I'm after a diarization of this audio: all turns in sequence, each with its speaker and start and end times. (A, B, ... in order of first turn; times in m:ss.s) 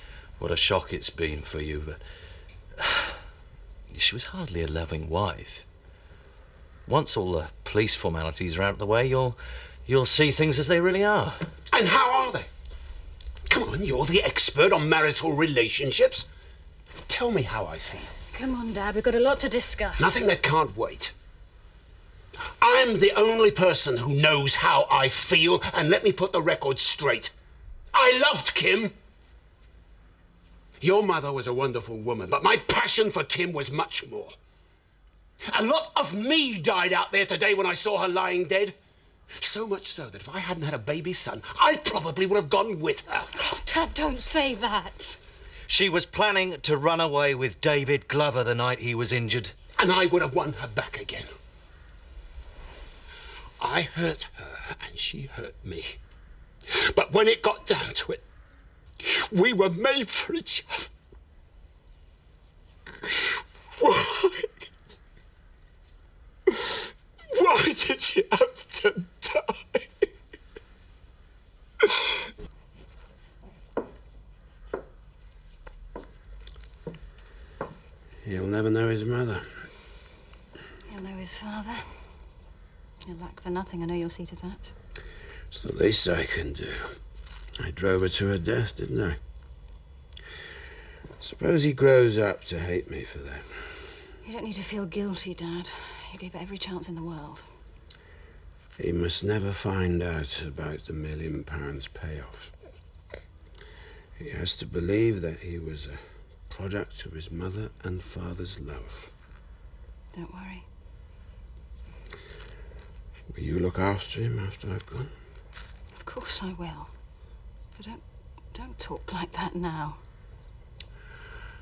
0:00.4-0:02.0 A
0:02.8-0:03.2 A
0:03.9-0:05.6 A
0:06.8-0:11.5 A
0:11.7-0:12.5 B
0:13.5-0:16.3 B
0:17.1-0:18.1 B
0:18.3-0:20.2 C
0:20.0-0:21.1 B
0:22.6-0:27.3 B
0:27.9-0:28.9 B
0:30.8-0:34.3 B
0:35.5-0:38.7 B
0:39.4-0:43.3 B
0:43.3-0:45.2 C
0:45.7-0:49.5 A
0:49.8-0:51.3 B
0:53.6-0:56.0 B
0:56.7-0:58.2 B
0:59.0-1:00.9 B
1:03.0-1:04.6 B
1:06.5-1:09.9 B
1:18.2-1:19.4 B
1:20.9-1:22.2 C
1:23.0-1:24.7 C
1:25.5-1:27.0 B
1:27.6-1:29.2 B
1:31.2-1:33.7 B
1:34.2-1:37.5 C
1:38.8-1:42.5 B
1:44.2-1:49.1 B
1:50.1-1:50.6 C
1:53.3-1:55.1 B
1:56.0-1:56.9 C
1:57.7-2:00.0 C